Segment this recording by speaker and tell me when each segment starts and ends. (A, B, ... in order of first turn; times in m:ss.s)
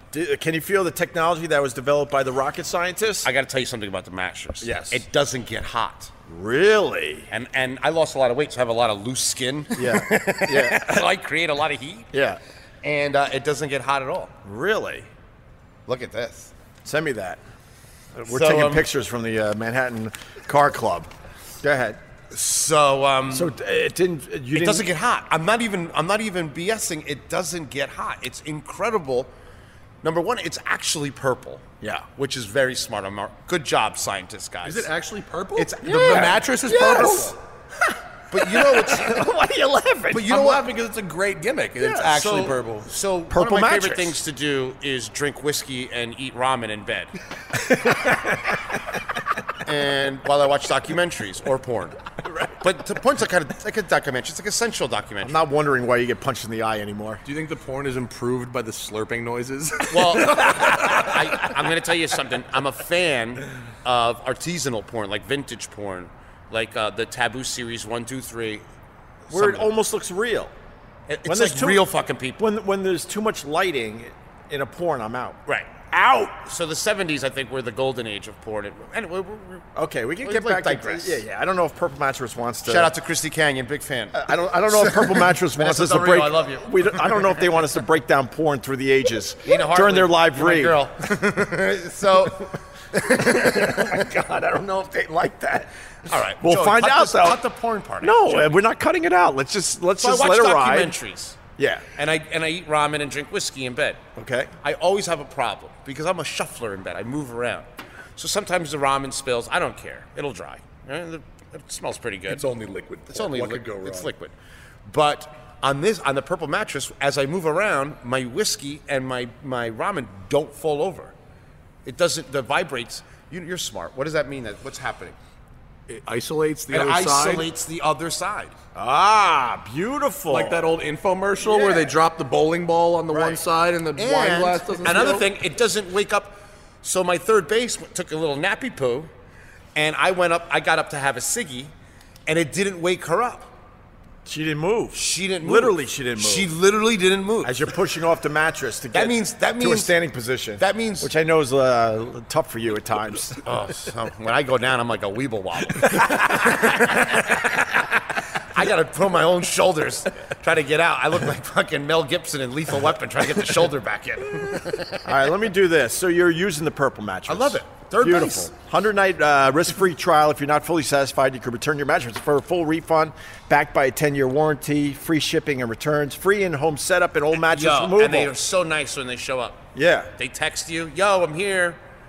0:00.1-0:03.3 A
0:03.2-0:06.1 B
0:04.6-0:05.0 A
0:06.2-0:07.3 A
0:07.3-0:12.1 B
0:09.8-0:11.1 A
0:12.1-0:12.4 A
0:12.8-0:14.3 B
0:14.4-0:15.1 A
0:15.9-0:16.5 B
0:16.8-0:17.4 A
0:18.1-0:21.1 A
0:18.3-0:18.9 B
0:21.6-0:22.0 A
0:22.3-0:23.5 B
0:23.3-0:24.9 A
0:24.5-0:29.3 B
0:30.0-0:31.6 B
0:31.8-0:32.0 A
0:32.2-0:34.9 B
0:34.6-0:37.4 C
0:35.6-0:37.1 B
0:35.8-0:37.4 A
0:38.3-0:39.3 B
0:38.3-0:40.5 A
0:40.1-0:42.9 C
0:40.1-0:40.6 B
0:41.8-0:42.1 A
0:42.0-0:47.1 B
0:43.3-0:44.2 A
0:49.6-0:55.4 B
0:55.2-0:57.2 A
0:57.2-1:01.2 C
0:59.9-1:08.6 B
1:09.3-1:09.7 B
1:09.3-1:10.5 A
1:11.1-1:12.4 B
1:11.2-1:11.8 A
1:12.4-1:15.4 A
1:15.4-1:15.8 B
1:15.9-1:16.4 A
1:16.4-1:19.7 B
1:19.8-1:22.9 A
1:20.2-1:21.2 B
1:22.6-1:27.6 B
1:24.1-1:30.8 A
1:29.4-1:34.0 B
1:33.1-1:35.7 A
1:36.1-1:38.6 B
1:36.4-1:37.4 A
1:38.0-1:41.0 A
1:40.0-1:41.4 B
1:41.6-1:41.8 A
1:42.0-1:44.0 B
1:44.2-1:44.5 A
1:44.6-1:47.6 B
1:48.2-1:52.4 B
1:52.3-1:54.1 C
1:53.1-1:54.3 B
1:54.8-2:01.1 B
2:01.8-2:05.2 B
2:05.9-2:07.5 C
2:06.7-2:08.5 B
2:08.7-2:10.6 A
2:10.3-2:15.3 C
2:11.4-2:11.9 A
2:13.1-2:13.4 A
2:14.0-2:19.1 B
2:19.7-2:21.7 B
2:22.2-2:23.5 B
2:24.2-2:26.5 A
2:24.9-2:27.6 B
2:27.4-2:33.4 A
2:28.9-2:30.0 B
2:30.6-2:31.1 B
2:33.4-2:45.1 B
2:45.0-2:58.3 A
2:47.3-2:48.5 B
2:57.4-2:59.6 B
2:59.7-3:00.1 A
3:00.2-3:01.8 B